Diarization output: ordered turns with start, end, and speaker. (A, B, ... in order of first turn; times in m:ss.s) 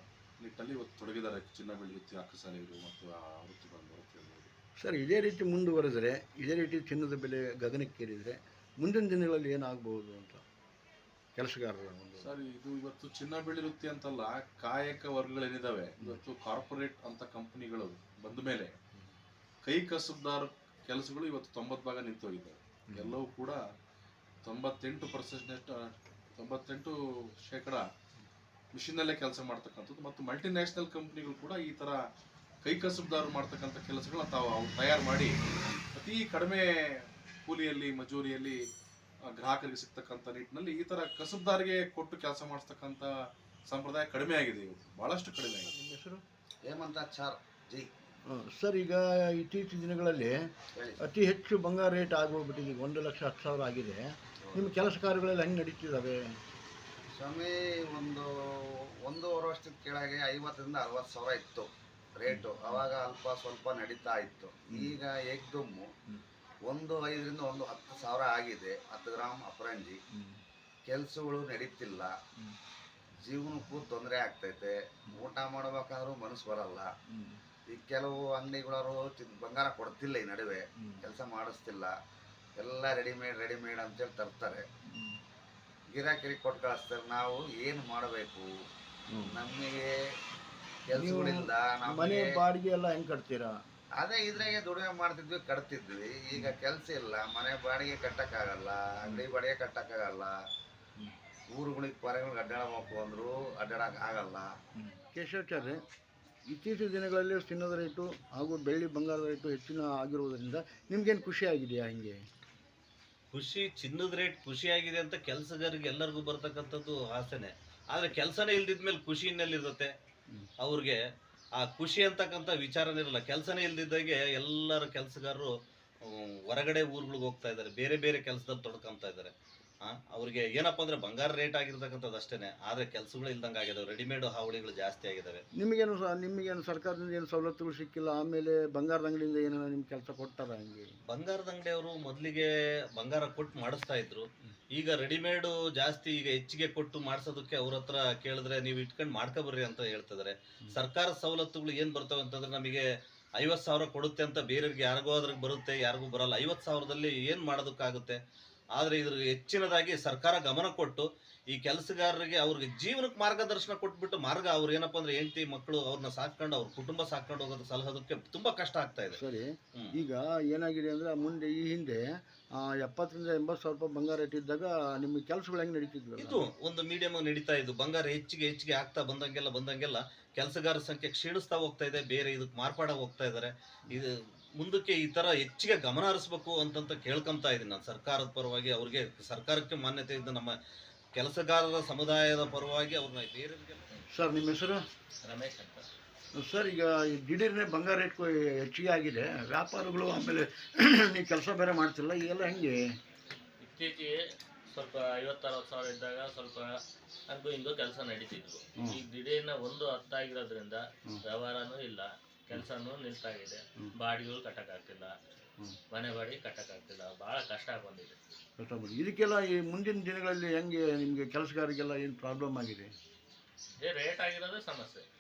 0:00.4-0:04.5 A
0:04.8-0:10.4 B
0:11.4-0:12.3 B
0:12.2-0:18.8 A
0:19.6-0:23.6 A
0:22.9-0:23.2 B
0:24.4-0:27.8 A
0:28.7-0:32.0 A
0:32.6-0:35.4 A
0:35.9-0:38.6 A
0:39.4-0:43.1 A
0:43.7-0:45.7 A
0:45.6-0:46.2 B
0:46.6-0:47.9 C
0:48.3-0:50.5 B
0:51.0-0:56.4 B
0:57.2-1:05.9 C
1:06.7-1:10.0 C
1:10.9-1:12.1 C
1:13.2-1:16.9 C
1:17.7-1:21.9 C
1:22.6-1:24.6 C
1:25.9-1:28.5 C
1:29.1-1:29.4 B
1:29.3-1:29.9 C
1:30.9-1:32.4 C
1:31.0-1:33.6 B
1:34.0-1:40.3 C
1:41.5-1:44.5 C
1:44.8-1:45.8 B
1:46.5-1:52.2 B
1:53.3-1:59.9 D
2:00.6-2:01.0 D
2:01.6-2:15.4 D
2:15.6-2:20.9 B
2:21.1-2:32.9 D
2:33.4-2:38.2 D
2:38.8-2:49.2 D
2:49.1-2:52.0 B
2:52.6-2:56.4 B
2:56.2-3:10.6 D
3:11.2-3:13.9 D
3:14.1-3:14.8 B
3:15.2-3:15.9 E
3:16.4-3:22.8 B
3:23.6-3:35.2 E
3:35.9-3:38.2 E
3:38.6-3:42.9 B
3:43.8-3:45.1 E